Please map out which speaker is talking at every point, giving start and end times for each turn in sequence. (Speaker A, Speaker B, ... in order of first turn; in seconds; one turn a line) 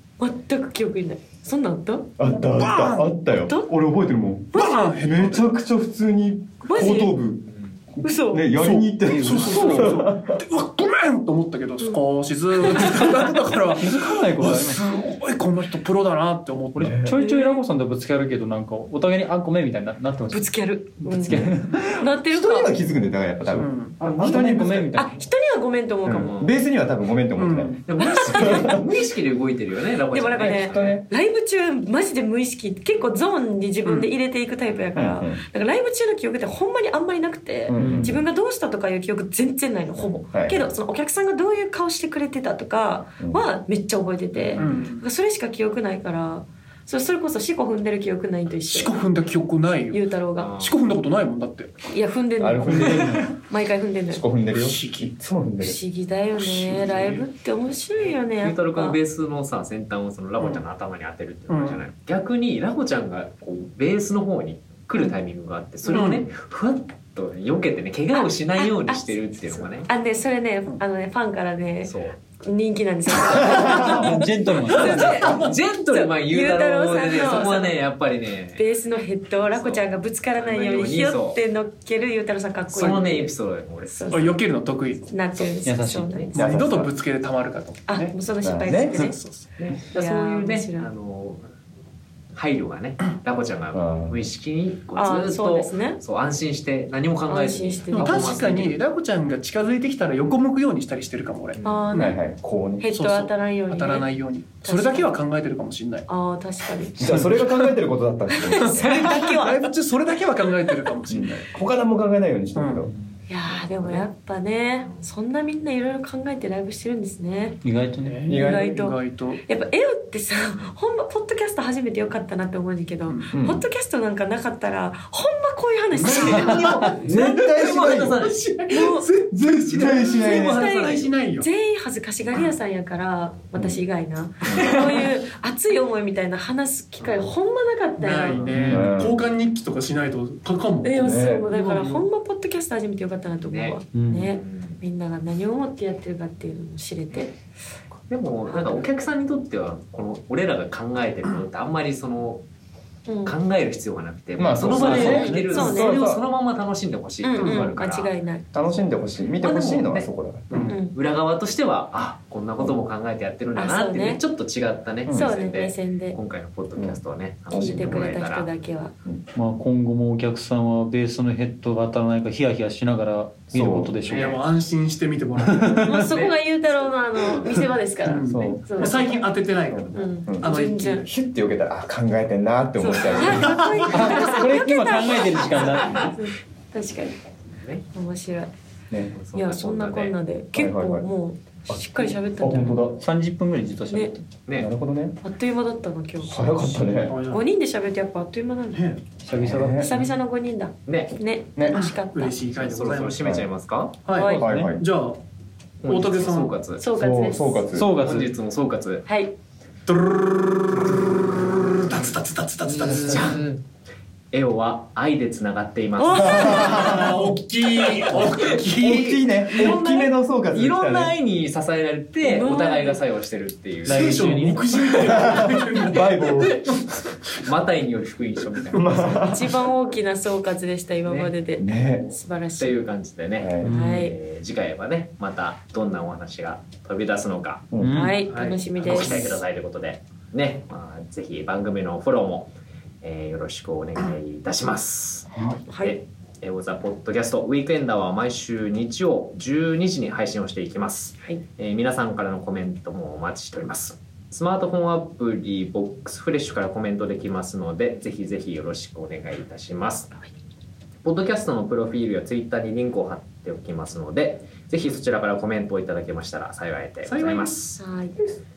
Speaker A: 0.2-2.1
Speaker B: 2.2-10.4
Speaker C: 2.5-3.1
Speaker A: 3.4-3.7
Speaker C: 4.5-5.5
Speaker A: 4.5-4.8
Speaker A: 6.6-7.1
Speaker A: 8.0-8.6
Speaker C: 8.6-17.0
Speaker D: 9.0-10.0
Speaker D: 13.7-14.8
Speaker B: 16.8-17.1
Speaker D: 16.8-21.9
Speaker A: 17.1-17.6
Speaker A: 20.3-22.8
Speaker B: 21.2-25.0
Speaker C: 23.6-24.0
Speaker D: 24.0-25.2
Speaker A: 24.9-26.4
Speaker B: 26.1-27.8
Speaker E: 26.1-26.5
Speaker C: 27.4-27.9
Speaker E: 27.9-31.0
Speaker A: 28.0-28.8
Speaker B: 28.3-28.8
Speaker A: 30.1-49.0
Speaker B: 30.4-31.0
Speaker C: 33.9-34.1
Speaker B: 35.0-35.4
Speaker B: 37.7-38.2
Speaker D: 37.7-38.1
Speaker B: 40.0-40.7
Speaker B: 43.2-43.5
Speaker E: 44.4-44.6
Speaker C: 44.6-45.0
Speaker C: 48.7-50.0
Speaker A: 49.9-50.5
Speaker E: 50.4-50.9
Speaker C: 50.6-51.8
Speaker A: 51.9-54.2
Speaker B: 52.4-53.4
Speaker C: 52.8-53.2
Speaker B: 54.1-55.8
Speaker C: 54.5-55.1
Speaker A: 55.6-59.0
Speaker C: 56.4-57.3
Speaker E: 57.9-69.9
Speaker C: 61.5-61.8
Speaker A: 65.9-66.1
Speaker C: 65.9-66.3
Speaker A: 68.1-77.8
Speaker E: 71.8-72.2
Speaker D: 73.7-75.2
Speaker E: 74.7-78.7
Speaker C: 75.2-75.5
Speaker A: 78.6-83.3
Speaker E: 79.5-81.4
Speaker E: 82.7-84.2
Speaker C: 82.8-83.1
Speaker A: 83.9-84.4
Speaker C: 84.1-85.1
Speaker A: 85.1-86.4
Speaker D: 85.7-86.3
Speaker C: 86.3-88.2
Speaker B: 86.3-86.9
Speaker A: 87.9-90.9
Speaker B: 88.4-89.1
Speaker C: 88.7-89.7
Speaker E: 89.9-91.4
Speaker E: 92.3-98.8
Speaker B: 93.7-94.3
Speaker A: 95.0-96.0
Speaker A: 97.3-98.5
Speaker C: 97.9-102.2
Speaker E: 101.6-101.8
Speaker A: 101.6-102.2
Speaker B: 101.9-102.9
Speaker A: 102.8-104.1
Speaker C: 102.9-106.1
Speaker A: 104.6-105.2
Speaker A: 106.1-107.7
Speaker B: 107.0-109.0
Speaker D: 107.0-107.4
Speaker A: 108.3-109.7
Speaker C: 108.6-111.5
Speaker B: 111.1-112.9
Speaker C: 112.6-112.8
Speaker A: 113.3-117.6
Speaker E: 113.5-114.0
Speaker D: 117.6-118.3
Speaker C: 118.0-119.4
Speaker B: 118.3-118.7
Speaker A: 118.3-127.0
Speaker E: 120.5-120.8
Speaker C: 123.1-123.3
Speaker B: 123.3-123.7
Speaker E: 126.0-128.4
Speaker C: 126.0-131.5
Speaker B: 127.0-128.2
Speaker A: 128.7-129.1
Speaker B: 129.3-130.7
Speaker E: 130.2-131.1
Speaker A: 130.2-138.6
Speaker B: 133.6-133.8
Speaker B: 134.4-134.7
Speaker E: 134.6-135.1
Speaker C: 138.0-142.1
Speaker D: 138.5-138.9
Speaker B: 138.6-139.2
Speaker A: 140.8-147.3
Speaker B: 141.0-141.5
Speaker E: 143.5-143.8
Speaker D: 143.9-144.3
Speaker E: 144.4-144.8
Speaker E: 148.1-152.4
Speaker A: 148.5-148.8
Speaker A: 153.1-153.3
Speaker E: 153.2-158.1
Speaker B: 154.4-156.2
Speaker D: 154.6-155.7
Speaker A: 154.9-156.0
Speaker A: 157.2-158.4
Speaker C: 157.4-157.7
Speaker B: 158.5-160.7
Speaker E: 159.4-168.5
Speaker C: 160.5-160.8
Speaker A: 160.6-161.0
Speaker A: 163.6-164.2
Speaker B: 165.1-165.3
Speaker A: 165.1-166.2
Speaker B: 166.8-168.0
Speaker A: 167.5-168.9
Speaker D: 169.3-174.4
Speaker B: 173.5-174.0
Speaker E: 174.1-174.4
Speaker C: 174.1-176.3
Speaker D: 175.5-176.0
Speaker A: 175.8-179.3
Speaker C: 178.1-181.1
Speaker B: 178.3-179.0
Speaker B: 179.7-183.9
Speaker A: 179.9-181.1
Speaker A: 182.8-187.2
Speaker E: 183.0-183.5
Speaker C: 183.2-183.9
Speaker D: 183.9-186.1
Speaker A: 187.9-188.5
Speaker E: 189.1-190.2
Speaker A: 189.3-193.0
Speaker B: 190.5-191.1
Speaker B: 191.7-193.0
Speaker D: 193.0-194.3
Speaker B: 194.6-195.2
Speaker A: 195.2-198.9
Speaker B: 196.2-197.2
Speaker C: 196.8-197.4
Speaker C: 198.7-199.0
Speaker D: 199.2-200.1
Speaker B: 199.4-200.0
Speaker A: 199.8-202.4
Speaker E: 200.9-201.2
Speaker B: 201.6-201.8
Speaker C: 201.7-203.3
Speaker E: 202.6-204.0
Speaker B: 203.2-203.5
Speaker C: 204.1-205.2
Speaker A: 204.2-204.4
Speaker D: 204.2-204.7
Speaker B: 204.4-204.8
Speaker E: 205.8-206.8
Speaker C: 205.9-206.6
Speaker A: 206.8-207.7
Speaker B: 206.9-207.9
Speaker D: 207.7-208.3
Speaker E: 208.0-209.1
Speaker A: 209.1-209.3
Speaker C: 209.9-213.4
Speaker E: 212.6-213.6
Speaker E: 214.3-216.9
Speaker A: 216.0-217.0
Speaker B: 216.2-217.2
Speaker C: 216.6-220.0
Speaker E: 218.0-218.6
Speaker B: 218.8-221.1
Speaker E: 219.5-225.3
Speaker A: 222.2-223.0
Speaker D: 223.8-224.8
Speaker C: 223.8-226.8
Speaker B: 225.0-226.7
Speaker E: 227.3-229.3
Speaker C: 228.7-229.1
Speaker B: 228.7-229.6
Speaker A: 229.2-232.8
Speaker E: 231.1-231.3
Speaker B: 231.6-232.1
Speaker E: 232.6-237.7
Speaker B: 233.4-233.8
Speaker D: 233.6-234.1
Speaker A: 233.7-234.2
Speaker B: 237.7-238.1
Speaker D: 237.8-238.2
Speaker A: 237.9-239.4
Speaker C: 238.3-239.3
Speaker E: 238.8-245.3
Speaker A: 245.7-245.9
Speaker E: 245.8-260.2
Speaker E: 261.0-267.8
Speaker C: 267.1-267.8
Speaker A: 267.8-268.2